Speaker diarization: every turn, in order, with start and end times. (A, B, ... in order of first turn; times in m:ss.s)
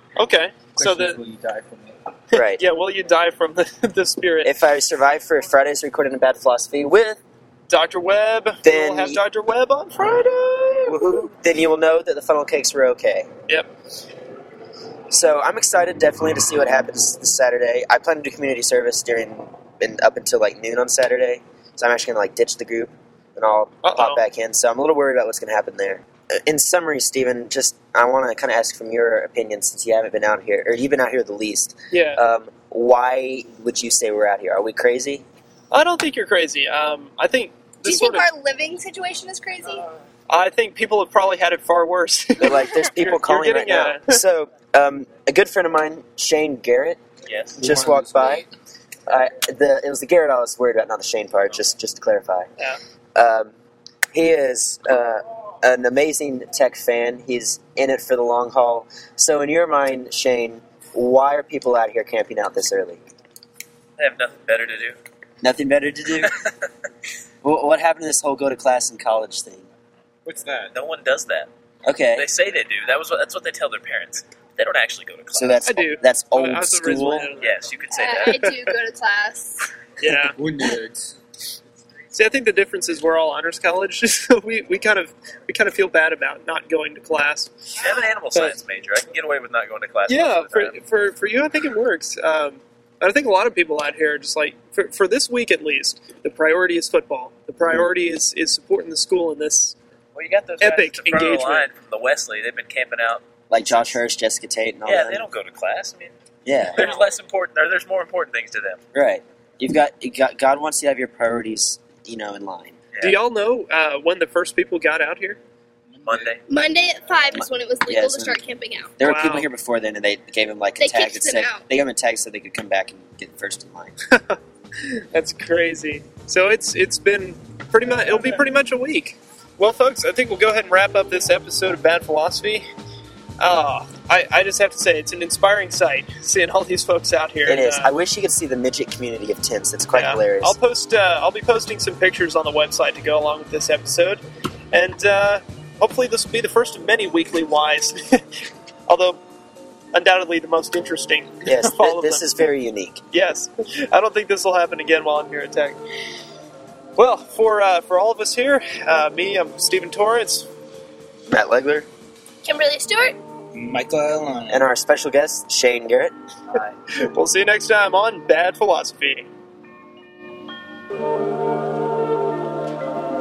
0:00.2-0:01.2 A
0:00.8-0:02.0 B
0:02.3-0:02.6 C
0:02.3-0:04.5 A
0:04.4-0:07.2 C
0:07.7-0:11.0 A
0:08.6-0:09.2 C
0:10.9-0:13.3 C
0:15.1-0:35.2 C
0:23.8-0:24.2 A
0:31.9-0:32.2 A
0:35.7-0:38.3 A
0:37.8-0:39.8 D
0:40.3-0:44.1 A
0:42.4-0:47.0 C
0:47.3-0:47.6 E
0:47.6-0:48.5 B
0:47.6-0:48.4 C
0:49.1-0:52.5 C
0:53.1-0:53.5 C
0:54.1-1:03.0 C
1:04.0-1:05.0 E
1:05.4-1:06.3 C
1:07.4-1:09.7 C
1:10.3-1:11.5 E
1:11.8-1:12.3 C
1:12.1-1:15.6 E
1:15.3-1:17.3 C
1:15.6-1:17.6 A
1:17.4-1:18.3 E
1:17.9-1:19.7 D
1:18.2-1:18.5 A
1:20.0-1:20.4 A
1:20.1-1:21.1 B
1:22.1-1:27.7 A
1:27.8-1:30.7 E
1:30.1-1:39.8 A
1:40.1-1:44.0 E
1:40.6-1:41.7 A
1:43.5-1:45.2 C
1:44.8-1:48.8 E
1:46.4-1:46.8 C
1:46.8-1:47.0 A
1:48.9-1:52.8 C
1:53.0-1:55.4 A
1:55.9-1:56.4 B
1:56.0-1:56.4 E
1:56.5-1:58.9 D
1:57.3-1:58.4 C
1:59.0-2:04.0 C
1:59.0-1:59.5 A
2:00.8-2:01.6 D
2:04.1-2:04.4 A
2:05.1-2:12.7 A
2:13.4-2:17.9 A
2:17.4-2:20.6 C
2:19.9-2:24.2 A
2:24.7-2:28.3 A
2:28.9-2:29.2 A
2:29.9-2:32.2 A
2:31.4-2:33.0 C
2:33.1-2:35.8 A
2:37.0-2:40.5 A
2:41.3-2:41.9 C
2:42.4-2:43.2 D
2:43.5-2:44.6 B
2:44.5-2:46.1 C
2:46.9-2:49.3 A